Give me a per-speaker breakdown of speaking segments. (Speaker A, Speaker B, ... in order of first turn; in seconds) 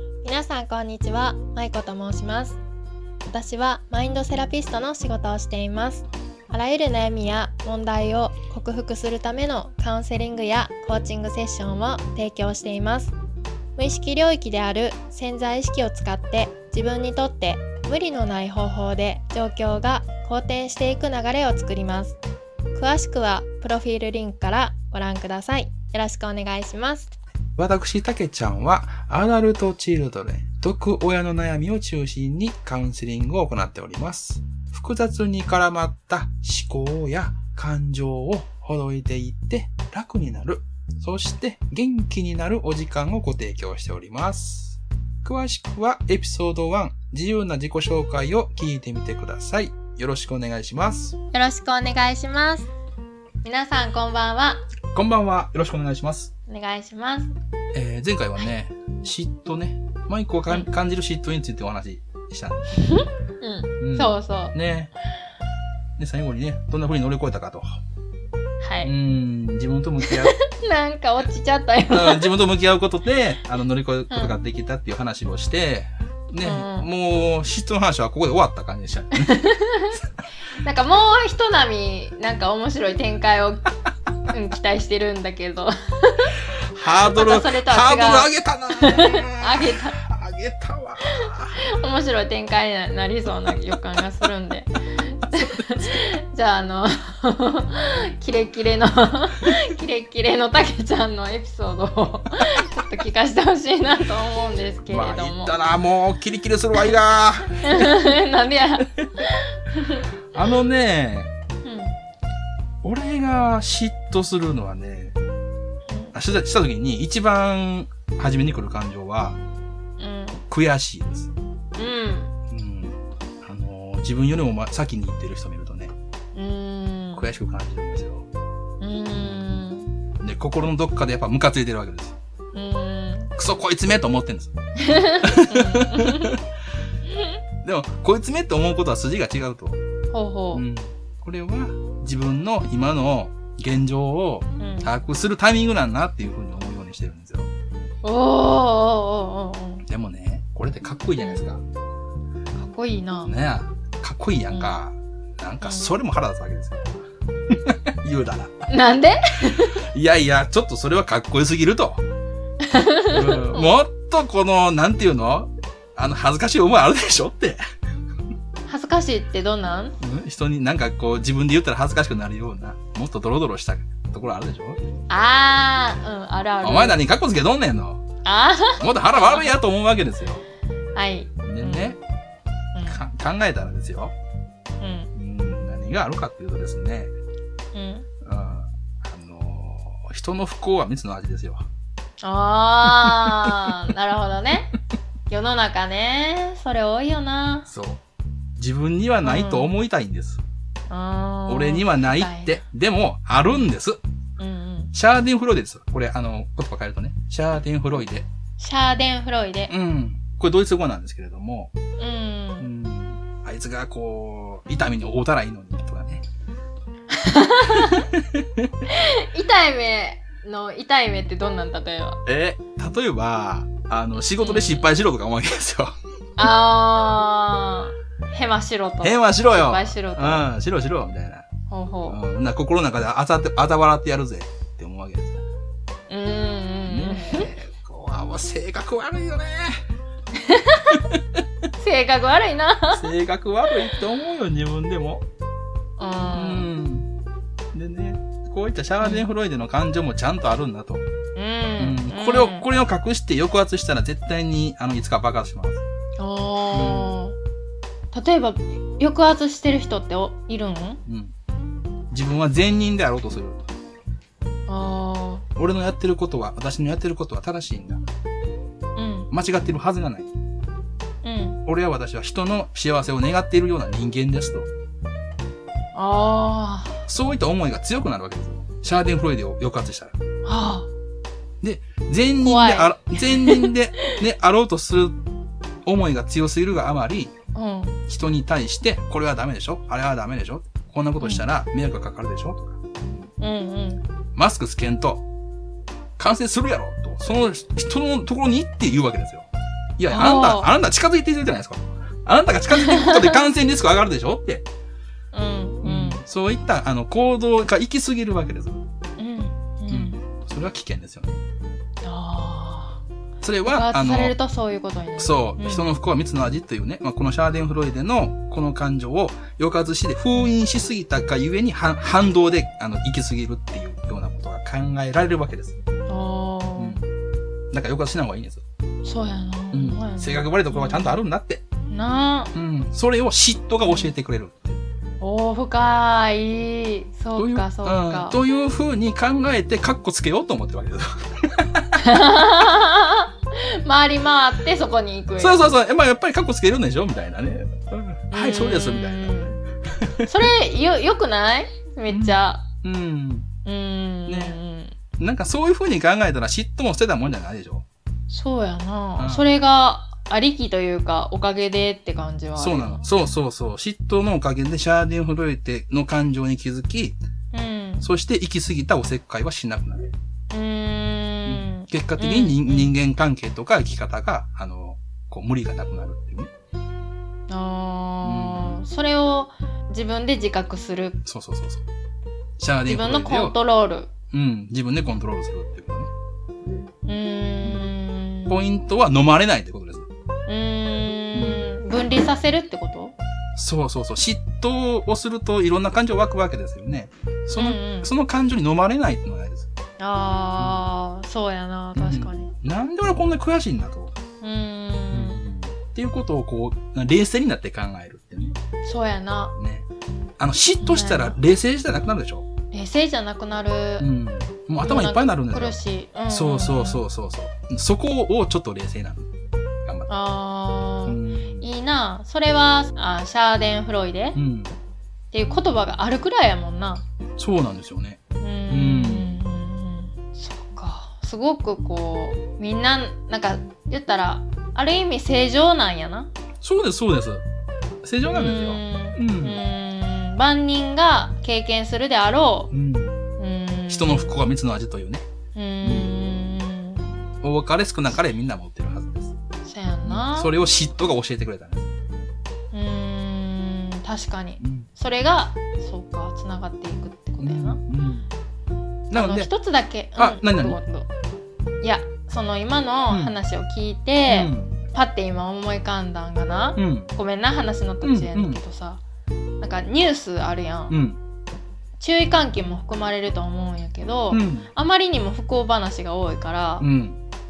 Speaker A: 0.2-2.6, 3.3-13.1, 13.8-22.2, 22.7-27.1, 51.3-52.7, 53.4-54.6, 56.5-57.3, 62.8-64.5, 68.6-68.9, 70.1-72.3, 74.1-74.4, 76.4-76.9, 79.2-80.0, 80.6-83.7, 84.3-86.4, 87.0-90.0, 91.7-105.6, 107.6-110.1, 111.6-112.0, 120.0-120.4, 121.8-122.3, 126.3-127.3, 128.8-129.9, 132.5-133.3, 134.8-136.4, 140.1-140.6, 144.6-144.9, 148.0-149.8, 152.5-153.3, 155.6-155.9, 158.7-159.8, 162.6-163.8, 168.7-170.0, 175.1-177.0, 178.2-179.5, 180.9-182.0, 182.7-183.0, 184.8-185.1, 187.7-188.1, 192.2-194.7, 195.3-197.7, 199.2-199.7, 200.9-202.6, 203.4-203.7, 204.4-204.9, 208.6-209.7, 212.0-212.7, 217.1-218.1, 218.8-222.2, 224.4-224.9, 226.4-230.5, 231.7-232.2, 236.1-237.5, 240.4-241.0, 241.8-243.1, 246.0-246.7, 251.3-252.7, 256.2-257.4, 258.1-261.0, 264.7-265.4, 268.9-269.3, 271.2-271.6, 275.9-277.0, 280.4-280.9, 282.4-283.7, 287.5-287.9, 291.2-291.4, 293.4-294.0, 300.1-300.7, 302.7-303.4, 305.3-306.2, 309.2-310.2, 312.0-313.0, 313.6-315.9, 326.1-327.0, 329.0-331.2, 331.9-332.5, 333.8-334.1, 335.2-338.4, 342.0-345.7, 348.3-349.6, 350.2-352.6, 353.6-354.9, 358.3-363.1, 367.5-368.1, 370.5-372.9, 377.5-381.2, 382.9-384.1, 387.0-388.6, 390.5-393.1, 397.5-398.1, 400.0-402.5, 404.4-405.4, 408.8-409.5, 410.8-411.4, 412.7-414.1, 414.8-417.0, 420.1-424.4, 425.3-427.0, 428.4-436.3, 438.3-442.7, 443.4-444.4, 445.5-447.1, 449.6-450.5, 452.7-457.8, 459.1-461.1, 461.8-469.0, 469.6-470.9, 472.0-476.9
Speaker B: 27.6-51.1, 54.9-56.3, 57.7-62.7, 63.8-64.9, 66.0-67.8, 68.8-70.3, 71.9-79.4, 86.8-91.6, 95.3-96.0, 104.9-107.9, 110.3-111.3, 112.8-115.2, 116.1-119.4, 120.5-121.3, 122.5-125.9, 127.1-128.2, 129.3-129.6, 130.2-132.2, 133.3-134.5, 135.2-136.4, 137.6-139.8, 140.5-147.5, 149.9-151.6, 153.2-156.9, 157.5-158.6, 159.9-162.0, 163.1-167.6, 170.0-174.8, 176.6-178.0, 178.8-180.4, 181.4-182.0, 182.8-184.1, 185.1-187.1, 188.2-191.7, 197.7-198.0, 198.6-200.4, 201.5-204.0, 204.9-208.3, 209.7-211.7, 212.6-216.2, 217.7-218.7, 222.2-225.9, 229.0-231.4, 232.1-235.4, 236.9-239.8, 242.9-245.2, 246.3-247.1, 247.7-251.1, 251.8-255.8, 256.7-257.2, 261.1-261.3, 262.1-263.6, 265.6-268.0, 269.3-270.3, 271.6-274.7, 277.1-280.2, 281.6-285.2, 285.9-287.3, 288.1-293.2, 294.4-295.2, 296.2-304.6, 305.8-308.8, 309.9-311.4, 313.4-314.4, 315.2-325.8, 326.8-327.1, 327.7-328.6, 329.7-331.6, 332.5-334.8, 337.4-341.9, 345.4-349.4, 352.1-353.5, 354.3-354.6, 355.2-357.8, 359.2-359.4, 362.5-367.2, 368.0-370.1, 371.4-376.5, 378.2-378.8, 381.2-381.8, 382.6-383.6, 384.3-386.1, 388.5-390.1, 391.3-391.6, 393.6-399.7, 400.6-400.8, 401.9-404.1, 405.1-408.6, 409.6-409.9, 410.4-412.4, 414.0-415.8, 416.3-419.3, 421.0-421.7, 424.3-424.7, 427.4-429.4, 436.6-437.4, 438.0-439.6, 442.7-443.1, 443.9-445.3, 445.8-446.2, 447.4-449.3, 450.0-451.9, 454.6-454.9, 457.4-458.3, 459.1-459.5, 460.1-460.8, 463.1-463.4, 464.3-464.8, 466.8-467.1, 468.0-468.6, 470.9-471.2, 474.3-474.7, 476.8-477.2